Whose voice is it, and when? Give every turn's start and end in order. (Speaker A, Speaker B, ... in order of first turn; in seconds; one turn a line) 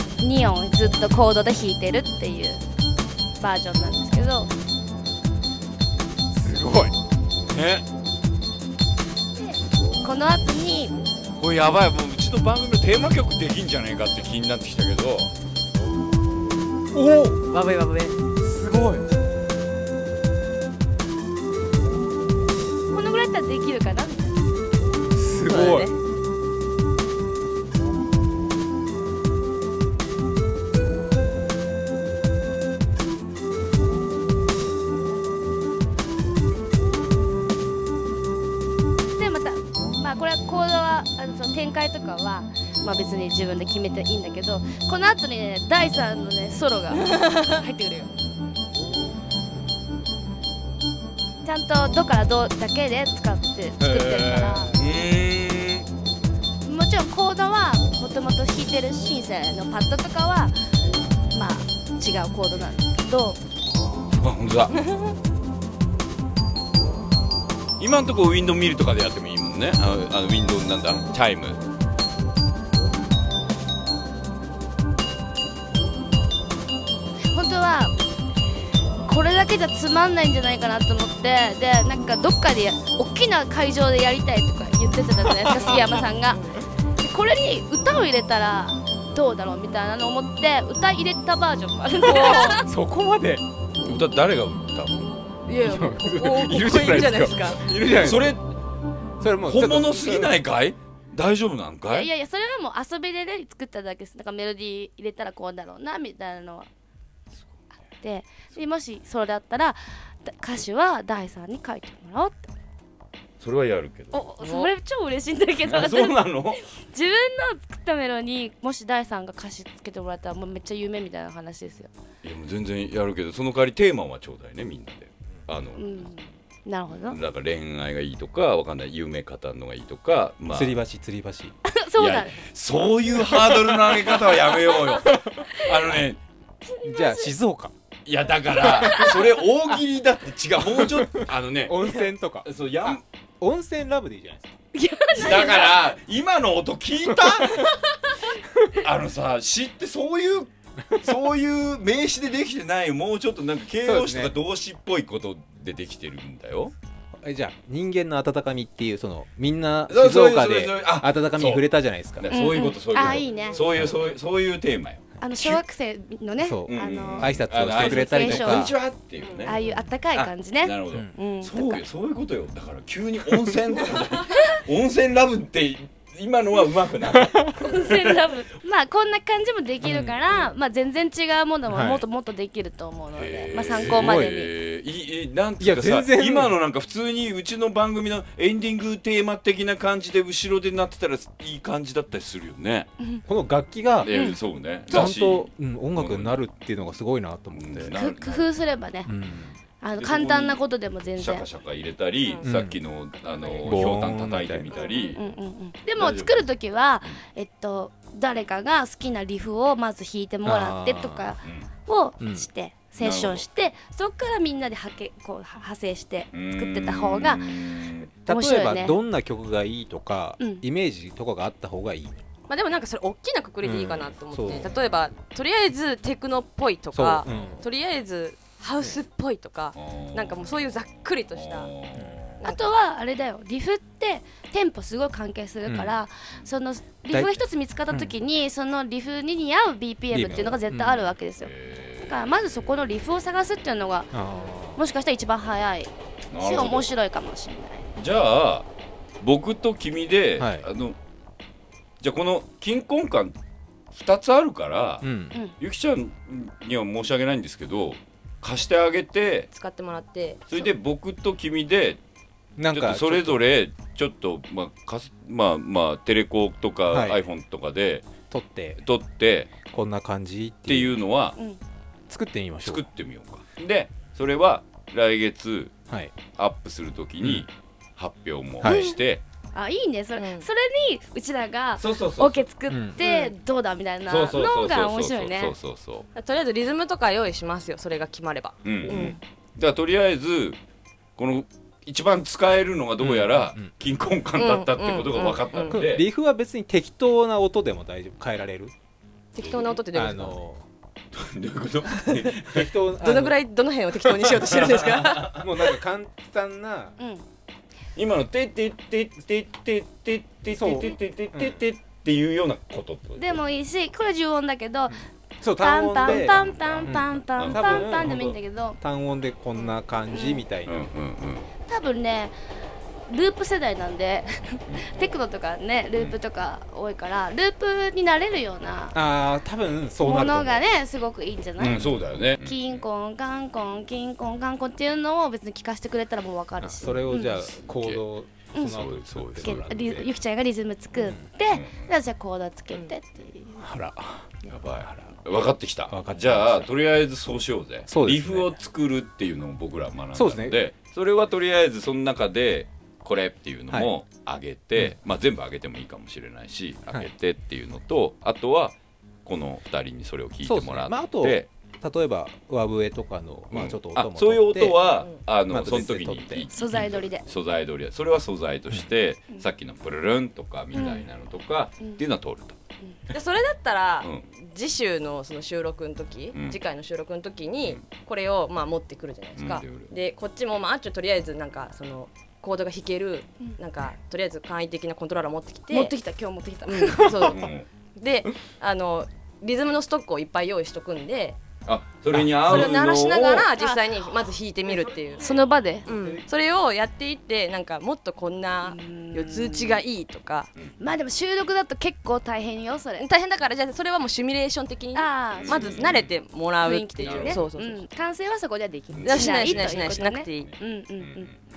Speaker A: 0.2-2.6
Speaker A: 3.4-4.5
Speaker B: 6.3-7.0
Speaker C: 7.5-7.9
Speaker A: 9.4-10.9
Speaker C: 11.4-15.3
Speaker B: 16.9-17.4
Speaker D: 17.5-18.1
Speaker B: 18.4-19.1
Speaker A: 22.9-24.4
Speaker B: 25.1-25.9
Speaker D: 25.5-25.9
Speaker A: 39.2-48.1
Speaker D: 47.1-47.5
Speaker A: 51.4-54.8
Speaker B: 53.8-54.7
Speaker C: 54.6-55.9
Speaker A: 56.6-60.6
Speaker A: 61.3-63.4
Speaker C: 64.0-64.8
Speaker D: 64.8-65.1
Speaker C: 67.8-71.6
Speaker A: 77.3-78.0
Speaker A: 79.0-92.6
Speaker B: 85.5-85.8
Speaker D: 86.3-86.6
Speaker D: 92.0-92.6
Speaker B: 92.6-93.4
Speaker C: 93.8-95.2
Speaker D: 95.5-97.6
Speaker B: 95.6-98.4
Speaker C: 97.9-98.5
Speaker B: 99.2-100.4
Speaker C: 99.4-102.1
Speaker A: 101.9-106.7
Speaker A: 108.0-112.5
Speaker C: 113.4-114.2
Speaker A: 114.1-121.9
Speaker D: 114.4-114.7
Speaker C: 115.7-116.6
Speaker C: 122.2-126.1
Speaker A: 125.8-127.2
Speaker C: 127.0-130.8
Speaker B: 130.5-131.6
Speaker A: 131.7-132.4
Speaker C: 132.0-136.2
Speaker A: 134.8-135.8
Speaker A: 136.7-137.3
Speaker B: 136.8-137.7
Speaker C: 138.1-143.0
Speaker A: 138.6-139.3
Speaker B: 140.8-144.6
Speaker A: 144.7-145.8
Speaker C: 145.1-147.8
Speaker B: 147.1-147.6
Speaker C: 148.7-156.7
Speaker B: 153.8-154.3
Speaker B: 157.2-162.4
Speaker C: 159.9-165.6
Speaker A: 162.3-163.6
Speaker D: 163.2-163.6
Speaker A: 165.2-168.8
Speaker B: 166.4-168.8
Speaker C: 166.7-169.6
Speaker D: 169.2-169.6
Speaker A: 169.4-171.8
Speaker C: 170.2-178.2
Speaker B: 177.1-177.5
Speaker A: 177.6-184.5
Speaker B: 179.8-180.2
Speaker B: 181.7-182.0
Speaker C: 183.1-192.9
Speaker B: 183.8-184.4
Speaker B: 185.6-186.6
Speaker B: 193.3-194.2
Speaker C: 194.0-196.5
Speaker A: 194.1-194.4
Speaker B: 194.9-198.0
Speaker C: 197.5-198.5
Speaker A: 197.9-199.1
Speaker B: 199.1-199.5
Speaker A: 199.8-201.5
Speaker C: 200.0-200.6
Speaker C: 201.2-205.2
Speaker D: 202.2-202.5
Speaker B: 202.4-202.8
Speaker D: 203.2-203.9
Speaker B: 203.6-204.7
Speaker D: 204.7-205.2
Speaker A: 204.8-217.6
Speaker C: 206.0-206.5
Speaker B: 210.4-211.3
Speaker C: 211.4-211.7
Speaker B: 212.2-212.5
Speaker C: 213.0-213.4
Speaker C: 216.3-218.1
Speaker B: 218.2-222.3
Speaker A: 218.3-219.0
Speaker A: 220.4-220.6
Speaker D: 222.5-231.7
Speaker B: 223.6-224.7
Speaker B: 226.9-227.7
Speaker C: 229.8-230.7
Speaker C: 231.3-232.4
Speaker D: 232.4-232.7
Speaker A: 232.4-241.5
Speaker B: 235.7-236.0
Speaker B: 237.1-237.4
Speaker B: 240.1-241.1
Speaker C: 241.4-242.3
Speaker A: 242.1-244.2
Speaker B: 244.1-244.8
Speaker A: 244.8-247.9
Speaker C: 246.3-246.9
Speaker C: 248.0-248.7
Speaker C: 249.2-251.0
Speaker B: 250.4-250.7
Speaker C: 252.0-253.4
Speaker C: 253.9-259.5
Speaker B: 255.0-255.4
Speaker D: 259.5-260.5
Speaker C: 260.5-262.0
Speaker B: 262.6-263.4
Speaker C: 262.7-268.1
Speaker B: 266.9-267.2
Speaker B: 268.3-268.8
Speaker C: 268.8-269.5
Speaker B: 269.6-271.0
Speaker C: 270.7-271.4
Speaker B: 272.1-272.9
Speaker C: 272.6-275.8
Speaker B: 275.9-276.1
Speaker C: 276.3-279.2
Speaker B: 277.2-277.5
Speaker B: 278.6-278.9
Speaker A: 278.6-279.0
Speaker A: 279.5-285.6
Speaker D: 280.2-280.5
Speaker C: 281.8-282.5
Speaker B: 282.7-283.0
Speaker D: 283.0-283.3
Speaker C: 284.1-286.1
Speaker D: 286.1-289.2
Speaker C: 288.6-290.6
Speaker B: 288.9-289.1
Speaker C: 291.2-296.1
Speaker B: 293.0-293.7
Speaker D: 294.4-295.9
Speaker B: 295.7-298.7
Speaker D: 299.3-300.4
Speaker C: 299.4-299.7
Speaker B: 299.9-300.6
Speaker C: 301.1-302.7
Speaker D: 302.0-302.3
Speaker B: 302.5-303.4
Speaker D: 303.0-305.7
Speaker C: 304.2-305.5
Speaker B: 305.4-307.0
Speaker A: 307.0-307.2
Speaker C: 308.0-313.4
Speaker B: 310.5-311.6
Speaker A: 313.2-315.0
Speaker B: 314.9-320.9
Speaker A: 315.6-318.8
Speaker C: 316.0-318.4
Speaker A: 320.1-320.4
Speaker C: 320.7-321.5
Speaker A: 321.7-322.4
Speaker A: 323.1-329.0
Speaker C: 324.7-325.0
Speaker B: 328.9-330.6
Speaker A: 330.0-337.4
Speaker C: 331.6-332.8
Speaker B: 336.6-340.1
Speaker C: 336.9-338.0
Speaker A: 338.5-338.8
Speaker C: 338.6-340.1
Speaker A: 339.4-343.6
Speaker B: 340.9-341.3
Speaker C: 341.5-341.9
Speaker B: 343.6-345.1
Speaker C: 344.5-361.5
Speaker B: 345.9-346.7
Speaker B: 347.9-348.6
Speaker B: 350.1-350.6
Speaker B: 360.4-364.8
Speaker C: 363.5-372.6
Speaker B: 365.5-366.9
Speaker A: 366.5-367.3
Speaker A: 370.7-371.0
Speaker D: 373.1-385.9
Speaker C: 379.4-379.9
Speaker A: 385.7-387.4
Speaker D: 386.7-391.4
Speaker C: 387.2-387.7
Speaker C: 391.7-393.5
Speaker B: 392.1-392.7
Speaker D: 392.4-395.3
Speaker A: 393.5-393.8
Speaker B: 394.6-396.2
Speaker A: 395.2-395.9
Speaker D: 395.9-400.5
Speaker A: 398.6-399.8
Speaker A: 400.8-403.1
Speaker D: 403.0-407.8
Speaker A: 404.9-405.9
Speaker C: 405.4-406.1
Speaker A: 406.6-411.3
Speaker C: 407.0-407.4
Speaker C: 408.9-411.4
Speaker D: 409.0-410.5